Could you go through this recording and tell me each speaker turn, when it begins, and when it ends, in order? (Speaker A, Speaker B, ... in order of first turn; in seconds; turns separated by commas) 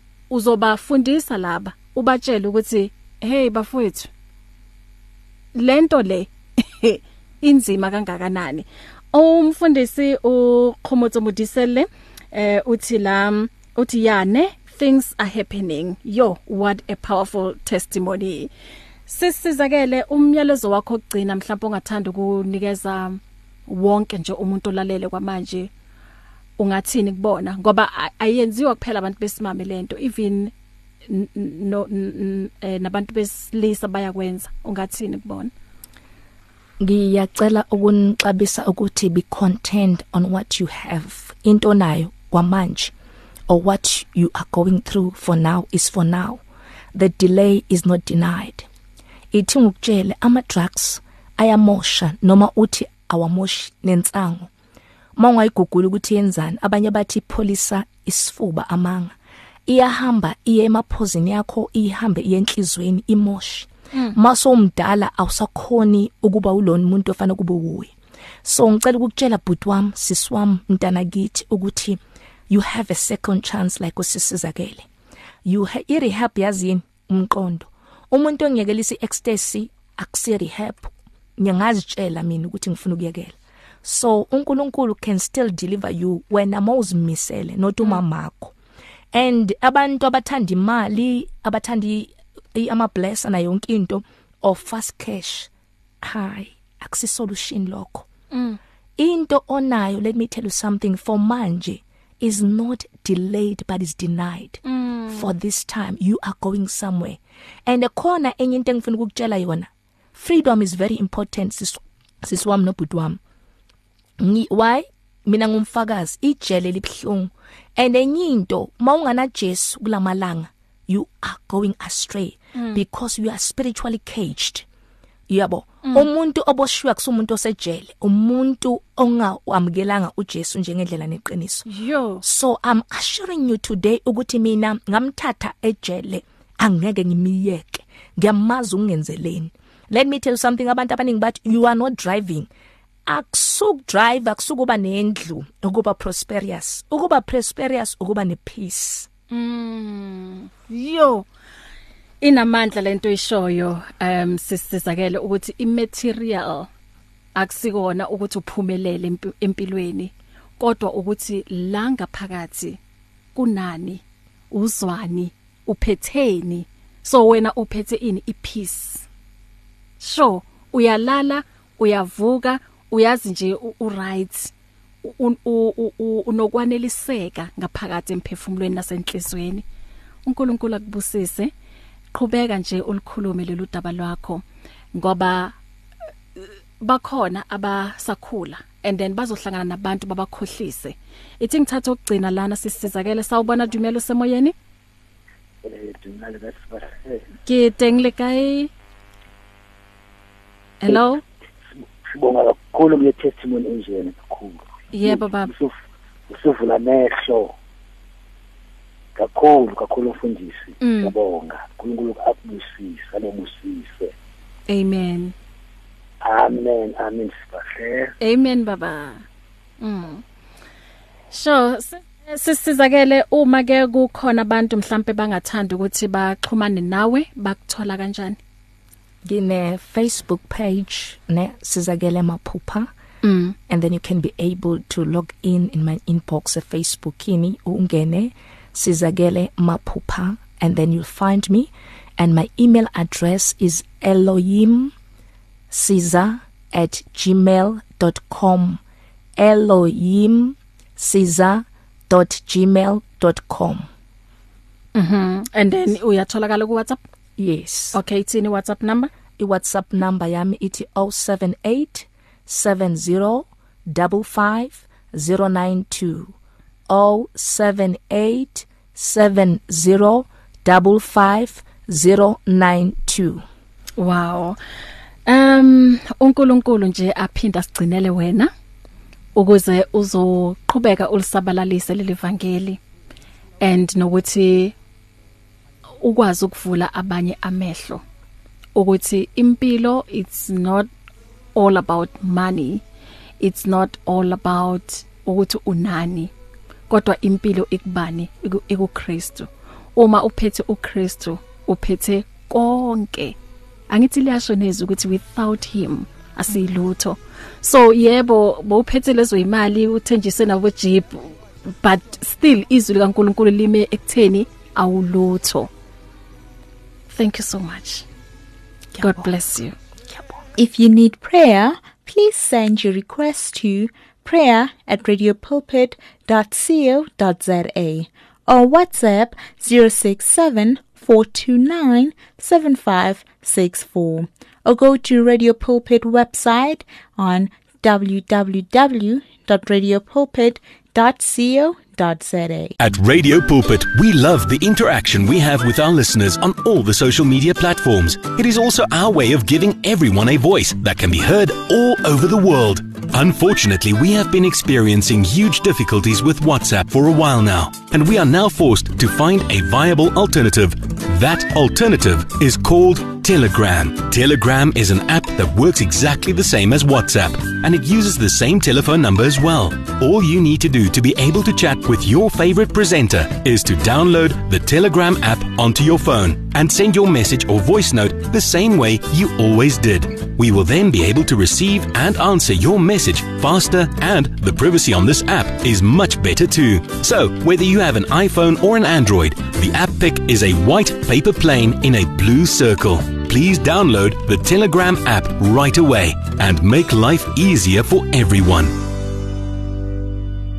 Speaker A: 0.3-4.1, Speaker A: 5.5-18.5, Speaker A: 19.1-25.7, Speaker A: 26.6-30.5, Speaker A: 31.1-35.5, Speaker B: 36.8-42.9, Speaker B: 43.5-46.4, Speaker B: 46.9-48.7, Speaker B: 49.3-54.5, Speaker B: 55.2-59.1, Speaker B: 59.7-74.9, Speaker B: 75.5-88.5, Speaker B: 89.1-95.5, Speaker B: 96.0-98.1, Speaker A: 98.3-98.6, Speaker B: 99.0-113.2, Speaker A: 104.7-105.3, Speaker B: 114.2-124.7, Speaker A: 122.5-122.8, Speaker B: 125.3-131.7, Speaker A: 131.7-132.2, Speaker B: 132.2-142.5, Speaker B: 143.1-149.1, Speaker A: 149.3-151.3, Speaker A: 152.2-156.7, Speaker A: 157.4-162.8, Speaker A: 163.3-169.1, Speaker A: 170.0-174.5, Speaker A: 175.0-179.7, Speaker A: 180.2-181.5, Speaker A: 182.1-184.4, Speaker A: 184.9-185.6, Speaker A: 186.8-194.6, Speaker C: 195.6-197.2, Speaker A: 197.5-198.7, Speaker A: 200.8-201.2, Speaker C: 201.8-205.8, Speaker A: 204.9-205.5, Speaker C: 206.3-207.5, Speaker C: 209.2-214.1, Speaker A: 210.8-211.1, Speaker A: 214.7-215.3, Speaker C: 216.2-218.1, Speaker A: 218.2-219.2, Speaker A: 219.8-220.2, Speaker A: 221.3-228.4, Speaker B: 229.2-232.9, Speaker A: 233.2-233.6, Speaker B: 233.7-244.9, Speaker B: 245.7-248.8, Speaker B: 249.4-253.9, Speaker A: 254.9-257.0, Speaker B: 257.4-258.0, Speaker A: 257.9-259.1, Speaker B: 259.4-266.3, Speaker B: 266.9-273.4, Speaker A: 274.0-274.6, Speaker A: 275.3-278.5, Speaker A: 279.4-282.8, Speaker A: 283.6-284.8, Speaker A: 286.0-288.0, Speaker A: 288.8-290.9, Speaker A: 291.6-292.8, Speaker A: 293.4-296.3, Speaker A: 296.9-303.4, Speaker A: 303.9-315.7, Speaker A: 317.1-318.1, Speaker B: 318.9-319.4, Speaker A: 319.0-319.8, Speaker B: 320.1-320.5, Speaker D: 320.6-342.8, Speaker E: 342.8-398.8